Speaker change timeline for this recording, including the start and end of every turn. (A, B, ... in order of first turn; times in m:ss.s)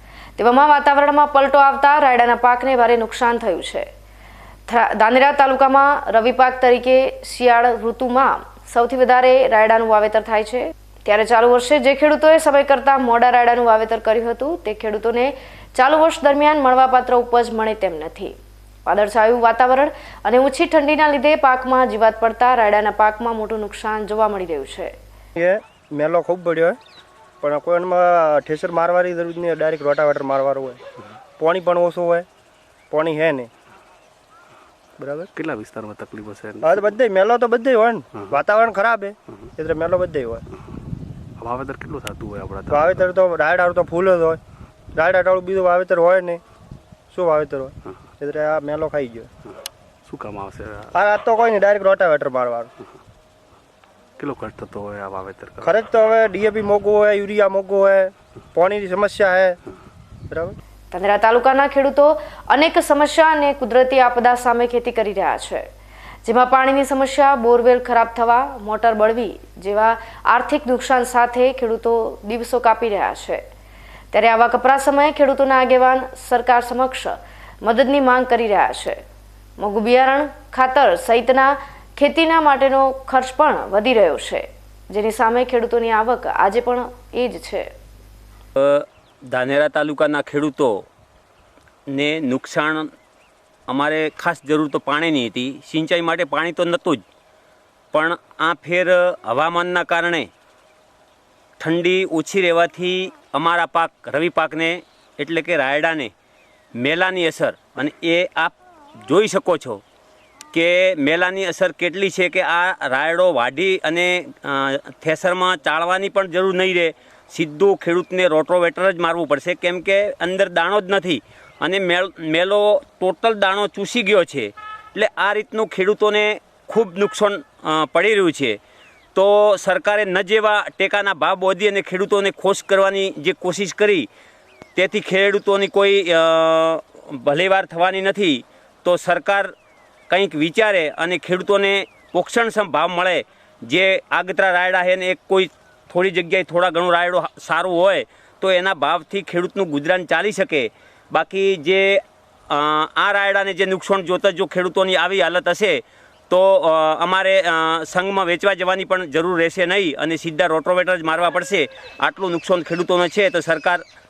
0:00.4-0:03.9 A
0:04.7-0:24.9 A
0:25.4-0:26.8 B
0:27.4-0:30.8 B
0:31.4-0:32.3 B
0:32.9-0:33.5 B
0:35.0-0:35.3 B
0:35.3-0:36.9 C
0:36.6-0:40.4 B
0:41.4-0:43.1 C
0:42.7-0:44.4 B
0:44.9-0:46.4 B
0:47.1-0:49.3 B
0:50.0-0:50.9 C
0:50.9-0:52.7 B
0:54.2-0:55.7 C
0:55.6-0:59.6 B
1:00.3-1:00.6 B
1:00.9-1:05.6 A
1:06.2-1:13.4 A
1:14.1-1:19.0 A
1:19.6-1:27.7 A
1:28.6-1:30.8 D
1:31.9-1:32.9 D
1:33.7-1:37.0 D
1:37.9-1:40.3 D
1:41.6-1:46.1 D
1:46.8-1:48.5 D
1:49.0-1:49.8 D
1:50.5-2:08.6 D
2:09.1-2:14.1 D
2:14.8-2:19.5 D
2:20.1-2:43.8 D